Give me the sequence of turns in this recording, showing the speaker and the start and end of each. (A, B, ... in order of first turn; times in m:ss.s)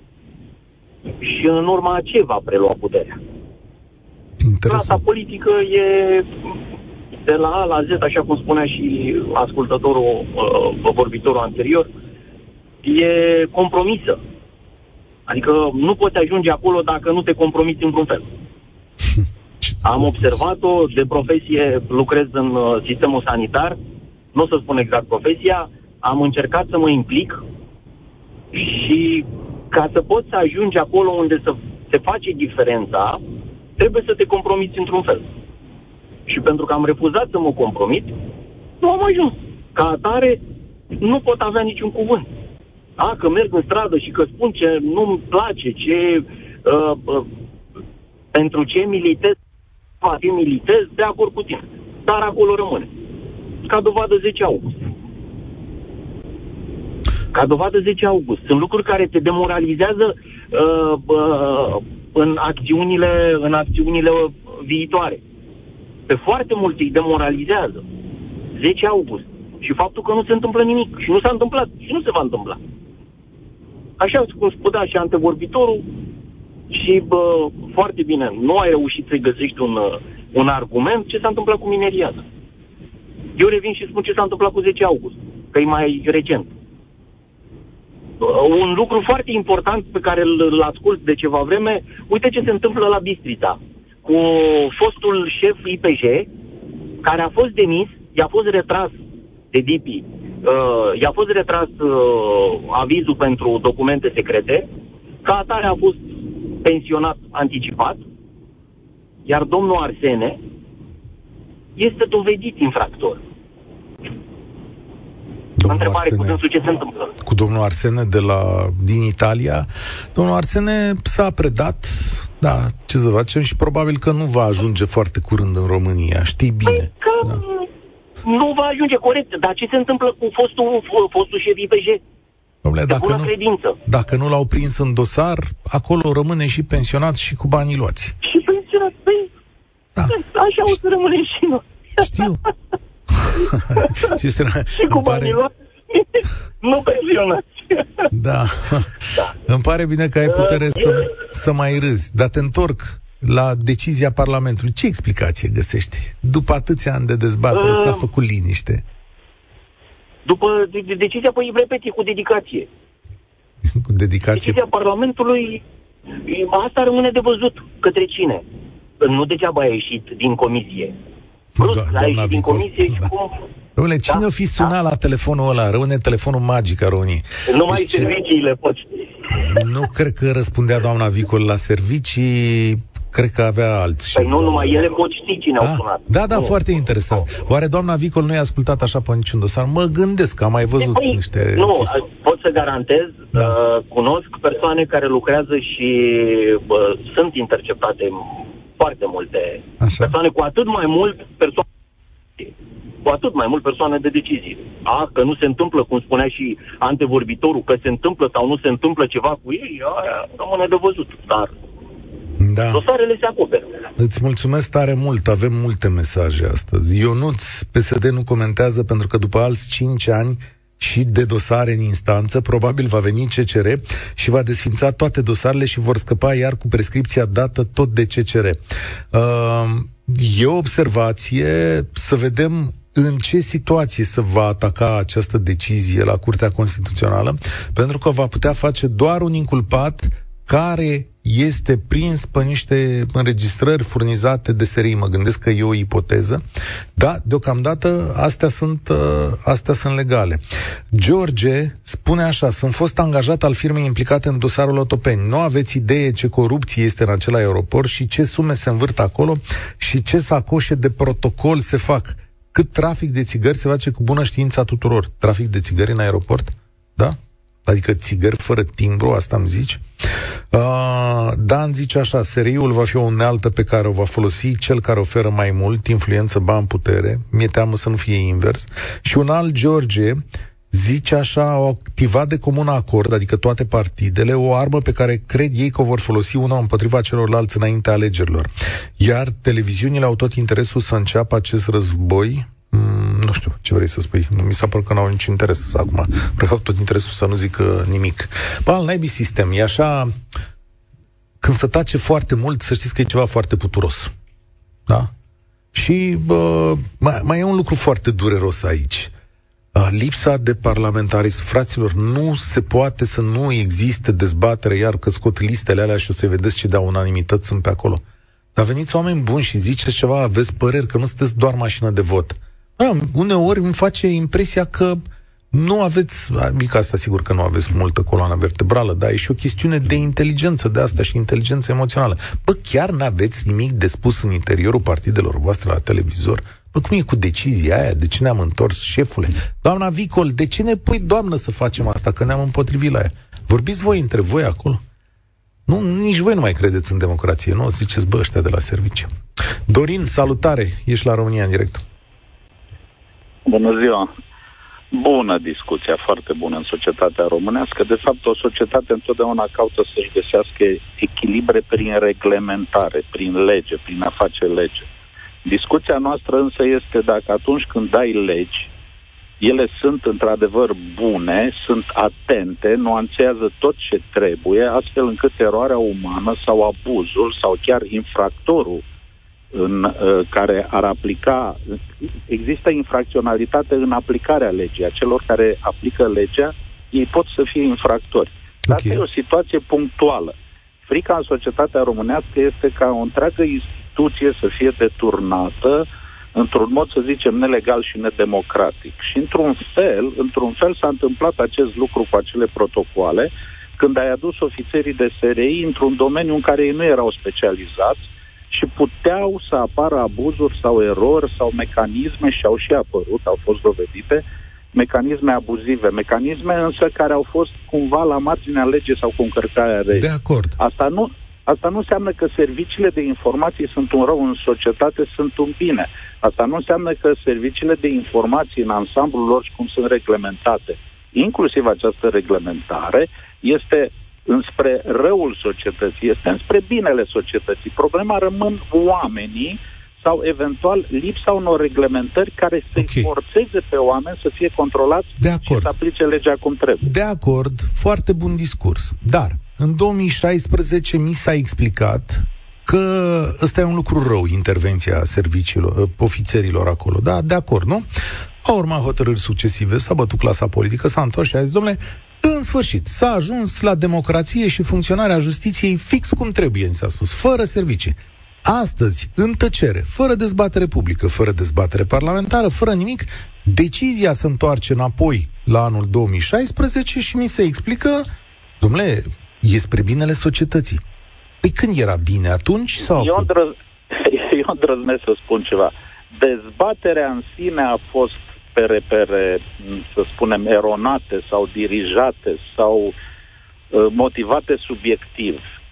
0:01.2-0:03.2 A
0:04.4-0:05.0 B
0:04.7-0:06.5 A
0:07.2-0:11.9 A
0:12.8-0:14.2 A
0:15.3-0:18.3 A
0:19.8-0:23.8 A
0:24.3-0:27.4 A
0:28.5-0:33.2 A
0:33.8-0:35.3 A
0:36.3-0:38.2 A
0:38.8-0:40.4 A
0:41.0-0:42.3 A
0:43.0-0:47.3 A
0:48.3-0:49.4 A
0:50.0-0:52.9 A
0:53.6-0:54.9 A
0:57.3-1:05.2 A
1:06.1-1:07.8 A
1:08.5-1:12.6 A
1:14.0-1:15.9 A
1:16.7-1:22.2 A
1:23.4-1:26.5 A
1:28.2-1:36.3 A
1:37.0-1:39.0 A
1:39.5-1:44.7 A
1:45.2-1:48.0 A
1:49.2-1:50.4 A
1:51.8-1:53.2 A
1:55.6-1:56.4 B
1:55.6-1:57.1 A
1:57.2-2:07.4 B
2:06.7-2:07.7 A
2:08.2-2:12.0 A
2:12.6-2:13.3 B
2:12.9-2:13.8 A
2:13.9-2:18.2 B
2:18.2-2:19.3 A
2:20.1-2:22.3 A
2:22.0-2:22.4 B
2:23.2-2:25.4 B
2:23.3-2:24.2 A
2:24.8-2:28.1 A
2:28.1-2:38.8 B
2:30.3-2:31.1 A
2:37.5-2:38.1 A
2:40.2-2:42.7 A
2:43.7-2:44.6 B
2:44.3-2:45.6 A
2:46.2-2:48.4 A
2:49.0-2:51.0 A
2:51.6-2:53.1 B
2:51.6-2:53.4 A
2:53.8-2:58.1 B
2:54.1-2:54.7 A
2:57.5-2:59.7 A
2:59.3-3:04.9 B
3:04.1-3:06.6 A
3:05.6-3:11.9 B
3:10.8-3:21.6 A
3:19.8-3:20.2 B
3:23.0-3:31.5 A
3:32.4-3:32.8 B
3:32.7-3:33.8 A
3:34.0-3:48.6 B
3:49.1-4:06.4 B
4:07.0-4:10.4 B
4:10.9-4:29.8 B
4:30.5-4:40.2 B
4:40.7-5:00.1 B
5:01.4-5:04.1 B
5:05.7-5:09.1 B
5:09.7-5:18.0 B
5:18.6-5:25.0 B
5:25.5-5:44.8 B
5:45.7-5:49.1 B
5:49.7-5:51.8 B
5:53.5-5:54.1 C
5:54.9-6:04.9 C
6:05.4-6:08.7 C
6:09.4-6:18.8 C
6:19.5-6:21.6 C
6:22.3-6:30.4 C
6:28.7-6:29.0 B
6:30.9-7:00.1 C
6:59.9-7:00.6 B
7:00.6-7:26.9 C
7:22.7-7:23.1 B
7:25.2-7:25.7 B
7:26.8-7:37.9 B
7:38.4-7:58.1 B
7:58.6-8:00.8 B
8:01.4-8:03.3 B
8:02.9-8:13.0 C
8:13.7-8:15.4 C